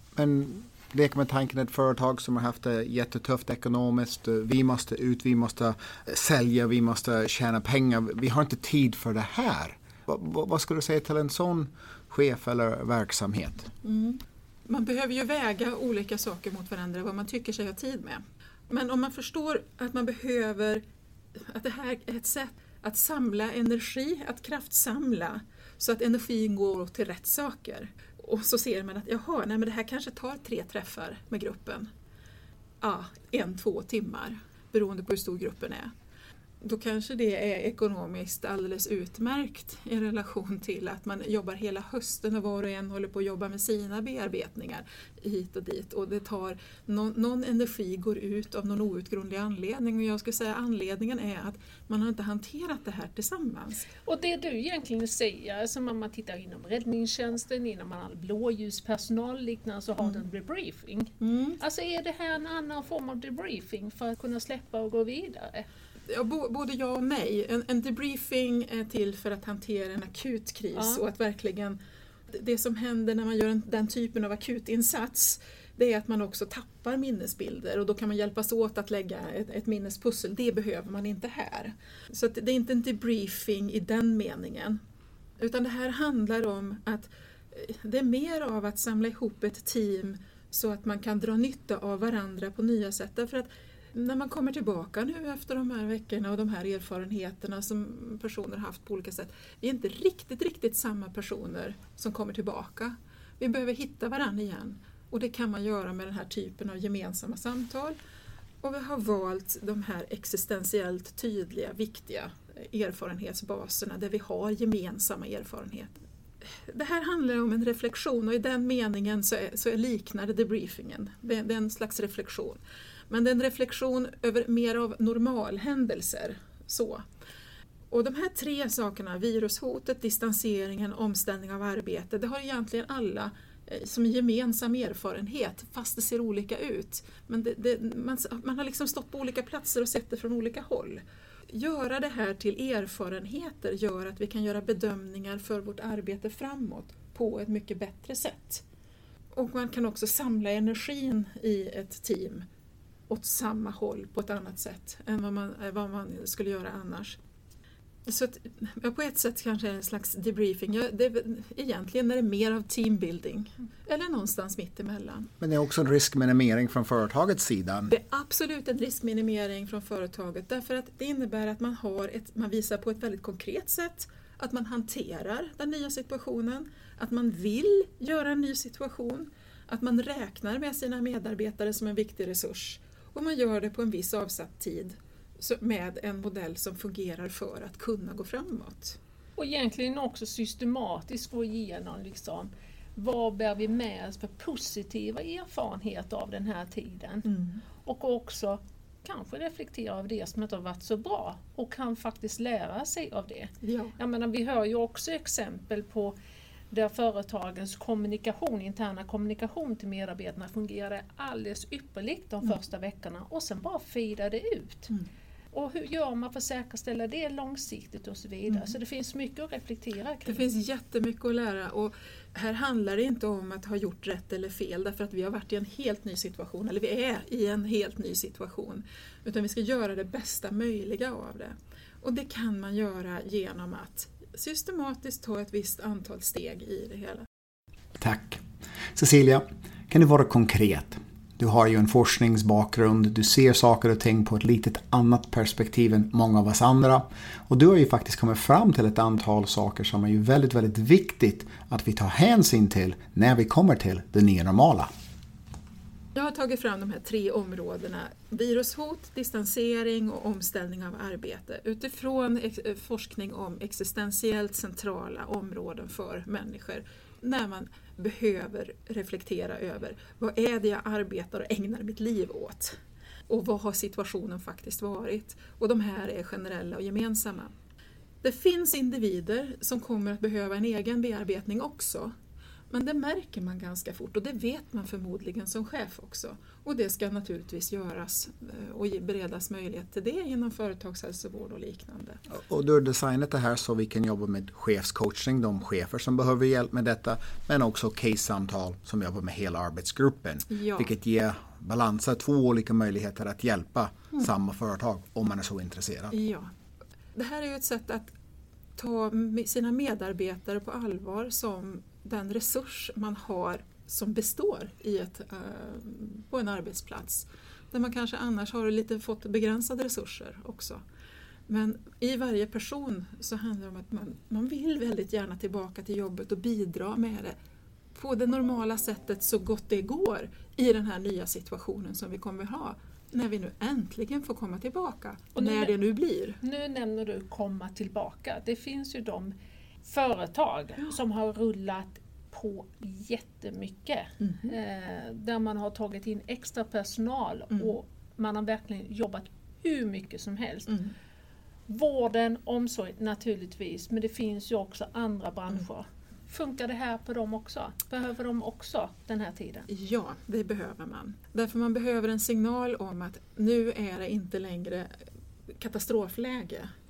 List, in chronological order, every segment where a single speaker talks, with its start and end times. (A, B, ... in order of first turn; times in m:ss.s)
0:00.2-0:13.7 A
0:13.8-0:20.8 B
0:21.5-0:31.9 B
0:32.8-0:35.9 B
0:36.6-0:53.9 B
0:54.0-1:05.7 C
1:01.2-1:01.6 B
1:06.1-1:11.8 B
1:10.7-1:11.0 C
1:12.3-1:24.8 B
1:25.4-1:48.0 B
1:48.6-1:55.9 B
1:56.7-2:07.0 B
2:07.9-2:28.6 B
2:29.3-2:32.4 B
2:33.1-2:37.2 B
2:38.1-2:45.3 B
2:45.4-2:47.9 A
2:47.9-3:09.0 B
3:09.4-3:17.3 C
3:17.2-3:17.6 B
3:17.8-3:26.2 C
3:23.6-3:24.0 B
3:26.7-3:35.0 C
3:35.5-3:40.4 C
3:38.5-3:38.8 B
3:40.3-3:57.2 B
3:58.0-3:58.4 A
3:58.9-4:14.9 A
4:16.2-4:32.8 B
4:33.3-4:37.5 B
4:38.2-4:42.1 B
4:42.7-4:52.2 B
4:52.3-5:06.2 A
5:00.5-5:00.9 B
5:06.1-5:06.5 B
5:07.2-5:08.1 B
5:08.8-5:20.8 B
5:21.5-5:27.4 B
5:28.0-5:36.4 B
5:35.4-5:35.8 C
5:36.4-5:50.8 C
5:44.2-5:44.5 B
5:51.7-5:59.7 C
5:59.7-6:05.0 B
6:05.6-6:06.7 B